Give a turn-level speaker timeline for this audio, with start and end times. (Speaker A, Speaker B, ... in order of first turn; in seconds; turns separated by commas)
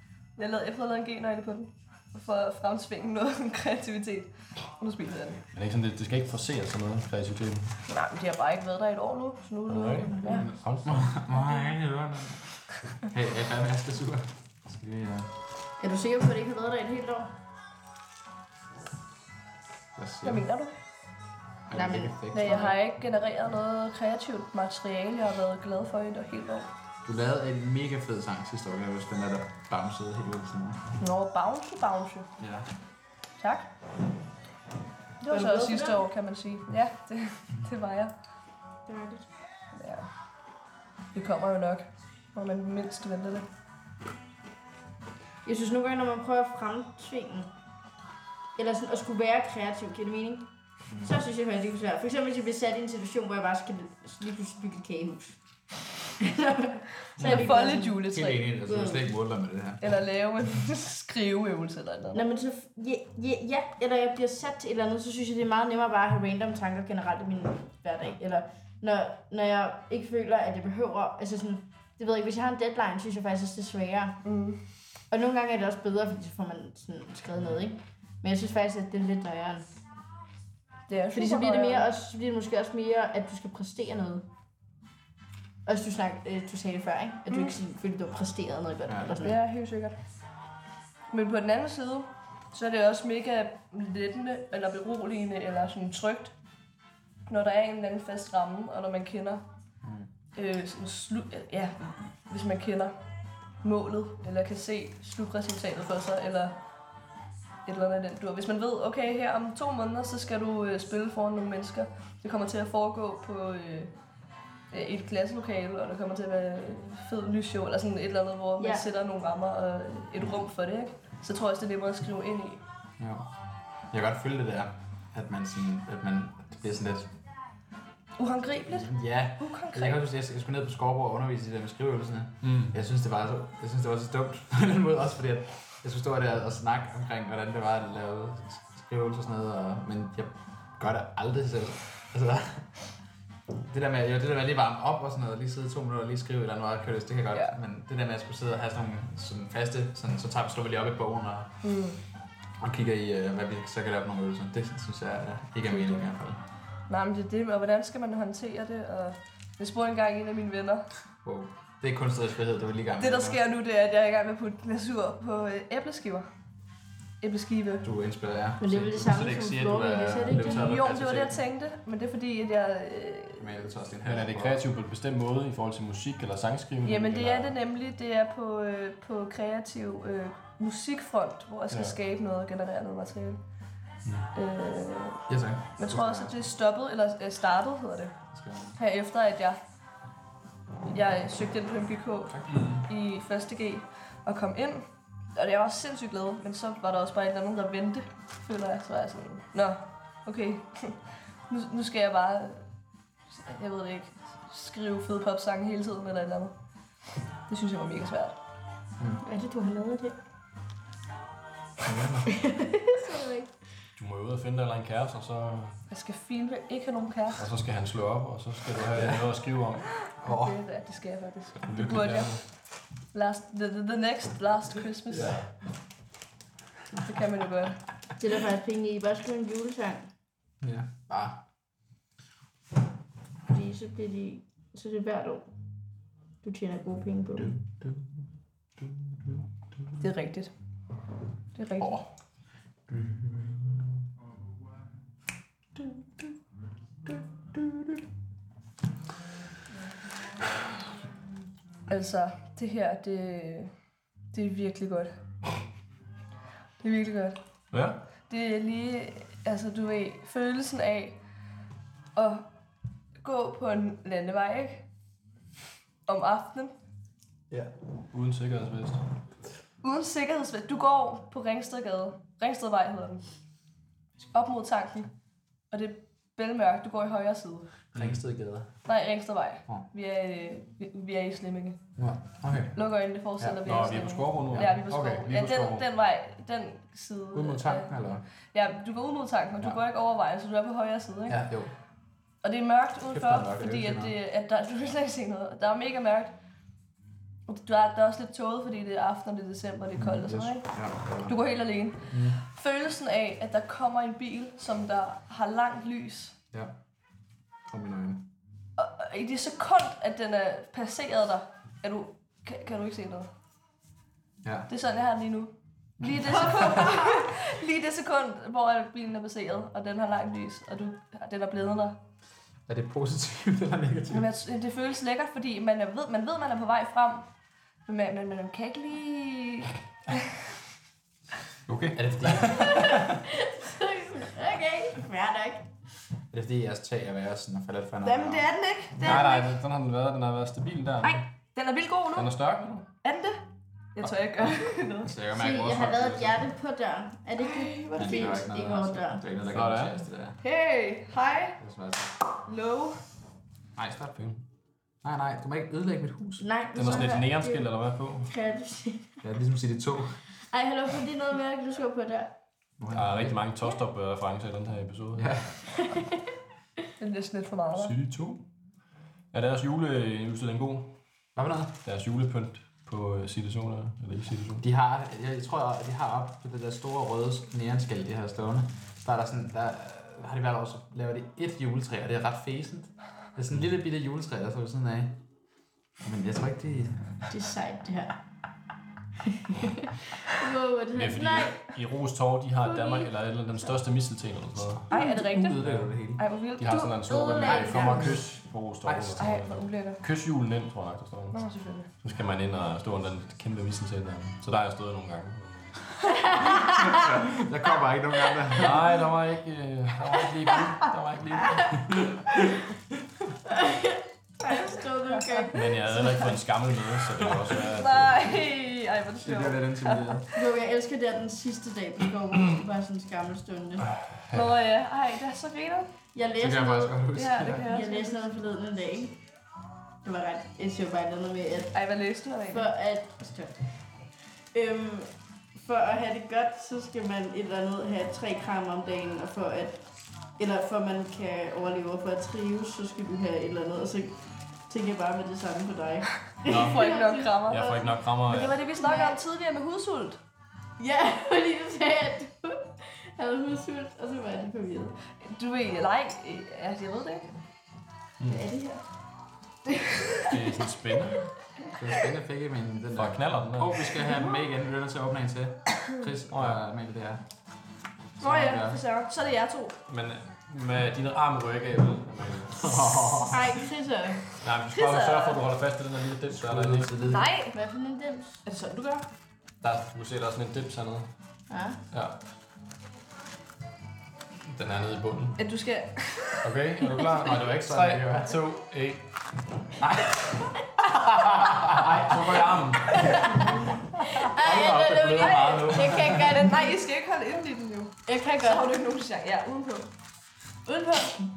Speaker A: 0.3-5.4, Speaker B: 5.5-7.8, Speaker A: 7.9-10.5, Speaker B: 9.7-11.2, Speaker C: 10.2-15.3, Speaker D: 15.8-17.3, Speaker C: 19.9-20.5, Speaker A: 20.2-20.7, Speaker C: 21.7-22.8, Speaker D: 21.7-22.7, Speaker A: 22.3-26.7, Speaker C: 27.0-30.8, Speaker A: 31.0-32.3, Speaker C: 32.4-32.7, Speaker A: 33.4-33.7, Speaker A: 35.2-38.1, Speaker D: 35.3-36.0, Speaker D: 38.9-39.3, Speaker A: 39.7-40.1, Speaker A: 41.1-43.4, Speaker D: 45.4-47.5, Speaker D: 48.5-50.5, Speaker C: 50.9-51.1, Speaker D: 51.0-55.4, Speaker D: 56.2-58.0, Speaker A: 57.2-58.5, Speaker C: 57.2-59.9, Speaker D: 58.6-59.0, Speaker A: 59.8-62.3, Speaker D: 62.1-74.2, Speaker A: 74.2-74.6, Speaker D: 75.1-79.7, Speaker A: 80.9-81.9, Speaker D: 81.1-84.2, Speaker D: 85.6-89.4, Speaker A: 87.3-87.5, Speaker C: 88.9-89.2, Speaker A: 89.2-90.0, Speaker A: 91.1-96.3, Speaker A: 97.3-99.4, Speaker C: 99.8-100.1, Speaker A: 100.3-102.9, Speaker A: 103.6-106.5, Speaker A: 107.7-113.9, Speaker A: 114.7-122.6, Speaker D: 118.6-118.8, Speaker C: 123.0-123.2, Speaker C: 123.9-127.1, Speaker A: 128.2-130.0, Speaker C: 128.7-142.7, Speaker B: 132.4-132.7, Speaker C: 143.7-151.5, Speaker A: 151.6-152.0, Speaker C: 152.6-156.4, Speaker A: 155.7-156.1, Speaker A: 156.9-160.9, Speaker C: 161.2-163.4, Speaker A: 163.0-166.3, Speaker A: 167.2-167.8, Speaker C: 167.8-171.4, Speaker D: 168.6-170.8, Speaker A: 170.4-173.5, Speaker C: 173.4-174.6, Speaker B: 174.0-177.5, Speaker A: 176.8-183.4, Speaker B: 181.7-181.9, Speaker A: 184.3-185.2, Speaker C: 185.3-186.4, Speaker A: 185.8-188.1, Speaker C: 188.3-188.8, Speaker A: 188.8-189.6, Speaker A: 190.9-202.6, Speaker C: 192.3-192.6, Speaker B: 192.5-192.8, Speaker A: 203.3-206.5, Speaker A: 207.5-208.3, Speaker D: 209.2-210.2, Speaker C: 211.8-212.3, Speaker D: 212.4-213.4, Speaker A: 213.1-213.4, Speaker B: 213.9-215.8, Speaker A: 215.9-217.4, Speaker B: 217.4-219.9, Speaker C: 218.9-219.3, Speaker A: 220.1-225.4, Speaker C: 220.2-220.6, Speaker B: 221.7-222.4, Speaker C: 225.1-225.4, Speaker A: 227.0-227.8, Speaker D: 228.2-230.1, Speaker C: 230.6-231.4, Speaker D: 233.5-235.4, Speaker D: 236.4-237.6, Speaker A: 240.0-240.5, Speaker A: 241.5-242.0, Speaker A: 251.9-253.7, Speaker A: 254.3-255.2, Speaker A: 256.8-257.4, Speaker B: 257.7-258.0, Speaker A: 258.3-261.2, Speaker A: 262.1-262.4, Speaker A: 263.2-264.9, Speaker A: 266.1-266.7, Speaker B: 268.1-269.0, Speaker A: 269.8-273.2, Speaker A: 274.3-275.1, Speaker A: 275.7-277.7, Speaker C: 277.9-278.7, Speaker B: 277.9-278.2, Speaker A: 278.9-281.8, Speaker C: 282.0-282.8, Speaker A: 282.7-287.9, Speaker C: 283.4-283.7, Speaker B: 283.6-285.8, Speaker C: 287.3-288.2, Speaker A: 288.5-291.4, Speaker C: 291.3-291.7, Speaker A: 292.4-296.3, Speaker C: 293.1-294.1, Speaker A: 297.5-306.3, Speaker C: 299.9-301.3, Speaker C: 302.1-302.4, Speaker C: 307.7-308.2, Speaker A: 308.8-313.3, Speaker C: 314.4-314.7, Speaker A: 314.7-322.0, Speaker C: 316.0-316.8, Speaker C: 322.7-324.3, Speaker A: 324.1-327.3, Speaker A: 327.9-330.2, Speaker B: 331.6-333.1, Speaker C: 331.9-332.9, Speaker D: 332.5-335.7, Speaker C: 336.3-338.5, Speaker A: 338.0-339.5, Speaker B: 339.0-341.2, Speaker D: 339.0-339.4, Speaker A: 341.0-342.3, Speaker B: 342.1-342.8, Speaker A: 342.9-345.1, Speaker B: 344.0-344.7, Speaker C: 345.0-346.4, Speaker D: 345.3-349.2, Speaker A: 347.4-348.3, Speaker C: 348.0-350.4, Speaker B: 349.5-350.1, Speaker A: 350.4-351.6, Speaker C: 351.6-352.1, Speaker A: 352.4-353.0, Speaker C: 353.7-354.3, Speaker C: 355.0-356.4, Speaker D: 356.4-357.7, Speaker B: 356.7-358.3, Speaker D: 358.2-359.2, Speaker C: 359.2-360.2, Speaker D: 360.5-362.4, Speaker C: 362.8-363.4, Speaker B: 362.9-365.4, Speaker C: 365.1-365.6, Speaker D: 365.7-366.2, Speaker A: 367.0-367.9, Speaker B: 367.7-368.4, Speaker B: 369.3-371.0, Speaker C: 371.3-371.8, Speaker B: 371.8-374.6, Speaker C: 374.6-385.2, Speaker C: 386.0-387.3, Speaker D: 387.3-388.2, Speaker D: 389.5-391.7, Speaker B: 390.9-394.9, Speaker D: 392.6-393.1, Speaker C: 394.9-396.2, Speaker A: 394.9-395.6, Speaker B: 395.6-395.9, Speaker A: 396.2-396.9, Speaker B: 396.6-401.4, Speaker D: 396.7-398.2, Speaker C: 397.4-399.2, Speaker A: 399.2-400.0, Speaker A: 401.3-401.9, Speaker B: 402.0-406.3, Speaker D: 406.1-407.0, Speaker C: 406.5-408.9, Speaker B: 408.5-412.0, Speaker D: 413.4-415.9, Speaker A: 415.2-415.5, Speaker B: 415.5-418.4, Speaker C: 417.2-417.5, Speaker A: 417.7-420.3, Speaker C: 419.2-420.3, Speaker D: 420.3-423.9, Speaker A: 424.3-425.9, Speaker D: 426.1-427.0, Speaker C: 426.4-427.7, Speaker A: 427.1-428.3, Speaker D: 427.6-429.2, Speaker D: 430.0-431.7, Speaker A: 431.7-432.7, Speaker D: 432.5-433.6, Speaker D: 434.5-439.8, Speaker D: 440.4-448.0, Speaker A: 446.4-450.2, Speaker B: 446.4-446.8, Speaker B: 447.4-448.5, Speaker D: 448.7-449.2, Speaker D: 450.8-455.0, Speaker A: 455.2-457.3, Speaker B: 458.2-458.5, Speaker D: 458.2-458.8, Speaker B: 460.2-461.3, Speaker C: 461.7-467.2, Speaker B: 462.9-464.0, Speaker B: 466.3-466.6, Speaker C: 468.2-468.8, Speaker A: 468.2-469.8, Speaker B: 469.9-472.8, Speaker C: 472.6-473.5, Speaker D: 473.3-474.3, Speaker B: 474.4-477.0, Speaker A: 474.7-475.4, Speaker C: 476.3-477.3, Speaker A: 477.1-477.6, Speaker D: 477.5-478.4, Speaker A: 478.4-479.0, Speaker B: 479.6-481.1, Speaker D: 481.5-481.8, Speaker B: 484.5-485.4, Speaker A: 485.4-486.4, Speaker B: 486.4-489.1, Speaker C: 487.2-488.4, Speaker C: 489.8-493.4, Speaker B: 491.6-493.6, Speaker D: 492.9-493.4, Speaker D: 494.1-496.8, Speaker B: 494.1-496.2, Speaker C: 494.4-496.3, Speaker A: 495.2-495.6, Speaker A: 496.1-499.9, Speaker D: 498.1-498.8, Speaker A: 500.7-501.1